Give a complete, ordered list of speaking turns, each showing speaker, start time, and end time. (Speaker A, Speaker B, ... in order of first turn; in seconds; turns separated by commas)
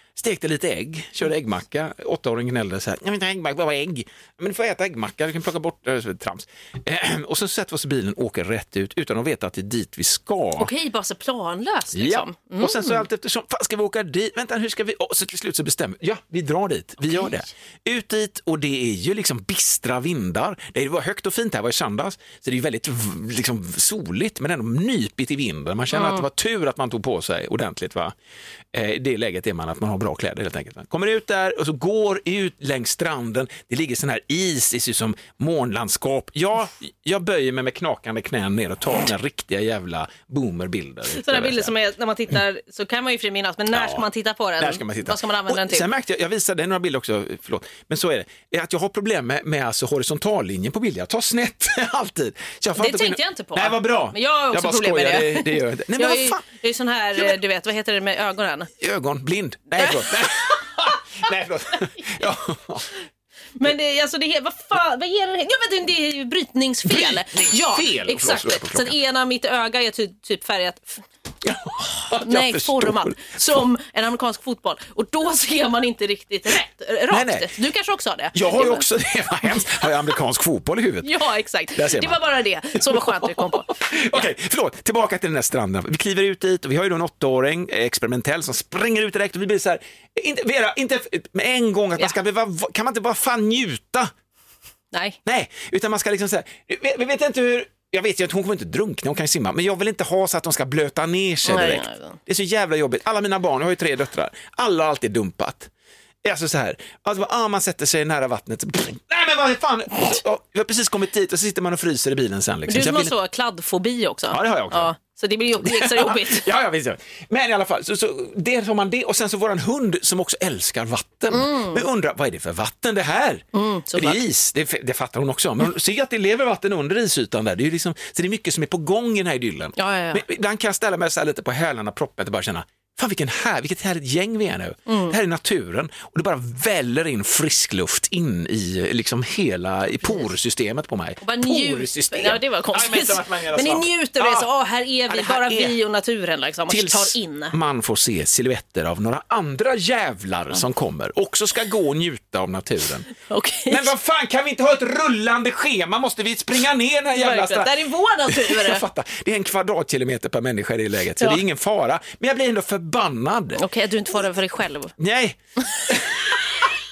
Speaker A: 0.1-10.7, Speaker B: 10.6-13.0, Speaker A: 11.9-28.1, Speaker B: 17.0-17.3, Speaker B: 25.9-26.2, Speaker A: 28.7-41.7, Speaker B: 41.1-45.9, Speaker A: 43.7-44.0, Speaker A: 44.6-56.4, Speaker B: 52.8-55.4, Speaker B: 56.0-58.7, Speaker A: 58.8-62.9, Speaker B: 59.8-60.3, Speaker B: 63.6-70.9, Speaker A: 66.8-68.9, Speaker A: 71.4-73.2, Speaker B: 72.2-78.8, Speaker A: 77.1-77.5, Speaker A: 78.3-81.2, Speaker B: 81.0-84.3, Speaker A: 81.7-82.2, Speaker A: 82.9-94.1, Speaker B: 94.9-95.2, Speaker A: 95.2-105.7, Speaker B: 101.5-102.2, Speaker A: 106.2-113.1, Speaker B: 112.7-116.5, Speaker A: 114.3-114.9, Speaker A: 115.6-123.4, Speaker B: 121.3-121.8, Speaker B: 123.5-124.2, Speaker A: 124.0-144.5, Speaker B: 129.8-130.2, Speaker B: 134.9-135.2, Speaker B: 141.2-147.5, Speaker A: 145.1-145.7, Speaker A: 146.7-153.1, Speaker B: 153.2-153.9, Speaker A: 153.7-157.7, Speaker B: 157.1-158.8, Speaker A: 158.2-163.6, Speaker B: 163.6-164.9, Speaker A: 165.0-166.7